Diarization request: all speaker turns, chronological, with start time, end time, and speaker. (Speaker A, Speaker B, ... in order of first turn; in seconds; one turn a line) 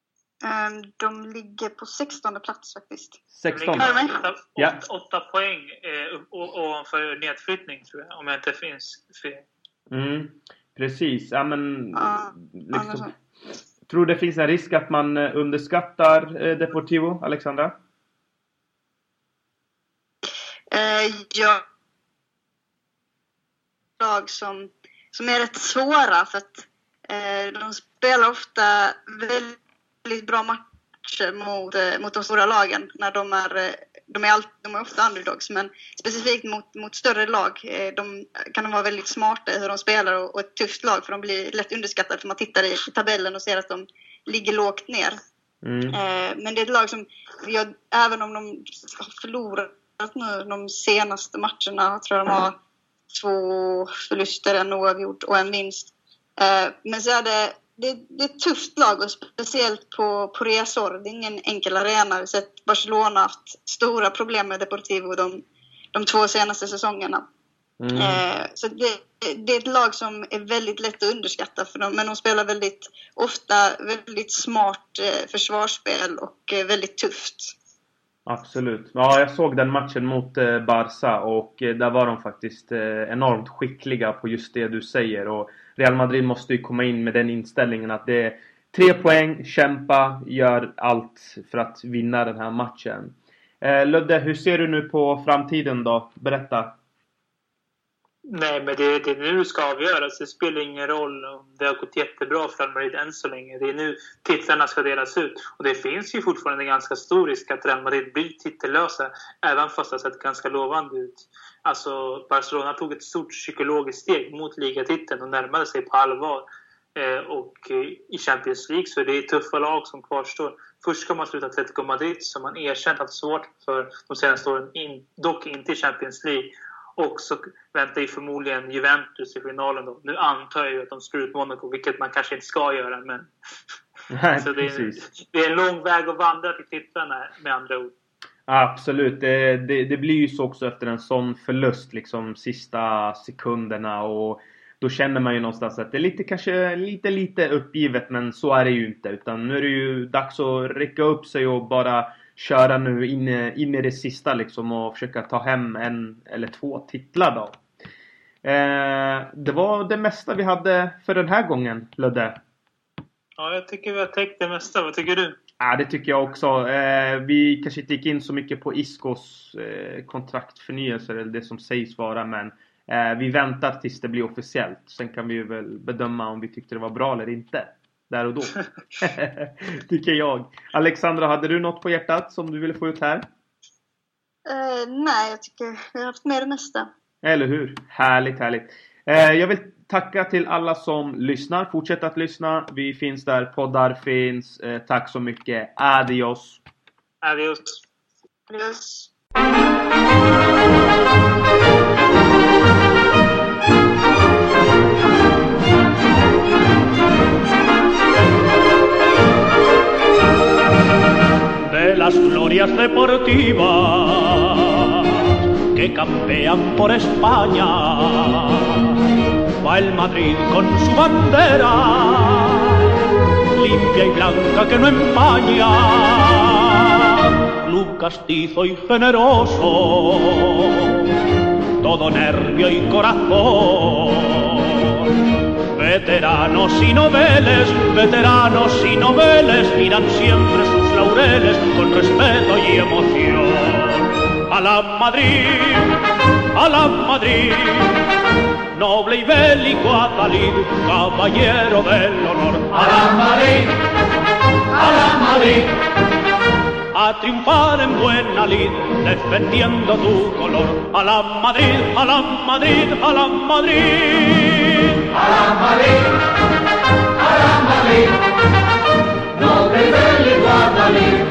Speaker A: 0.4-3.2
Speaker B: 3.3-3.9
Speaker C: 3.5-9.4
Speaker A: 3.8-4.1
Speaker B: 9.9-13.1
Speaker A: 11.9-13.1
Speaker B: 13.9-17.7
Speaker A: 20.7-21.6
Speaker A: 24.0-45.2
Speaker B: 45.6-46.0
Speaker A: 45.9-52.6
Speaker A: 53.1-65.4
Speaker A: 65.9-67.2
Speaker B: 67.8-68.2
Speaker A: 68.0-77.5
Speaker B: 78.3-96.7
Speaker C: 98.3-133.3
Speaker B: 134.1-135.0
Speaker C: 134.4-137.9
Speaker B: 138.5-157.6
Speaker B: 158.4-162.4
Speaker C: 163.4-165.4
Speaker B: 165.6-183.2
Speaker A: 184.5-186.9
Speaker B: 187.2-196.6
Speaker C: 197.2-197.8
Speaker A: 198.5-199.1
Speaker D: 211.7-219.0
Speaker D: 219.6-222.9
Speaker D: 223.5-231.0
Speaker D: 231.8-235.1
Speaker D: 235.7-246.0
Speaker D: 246.6-248.0
Speaker D: 248.7-253.7
Speaker D: 254.8-255.7
Speaker D: 256.9-265.3
Speaker D: 270.2-271.0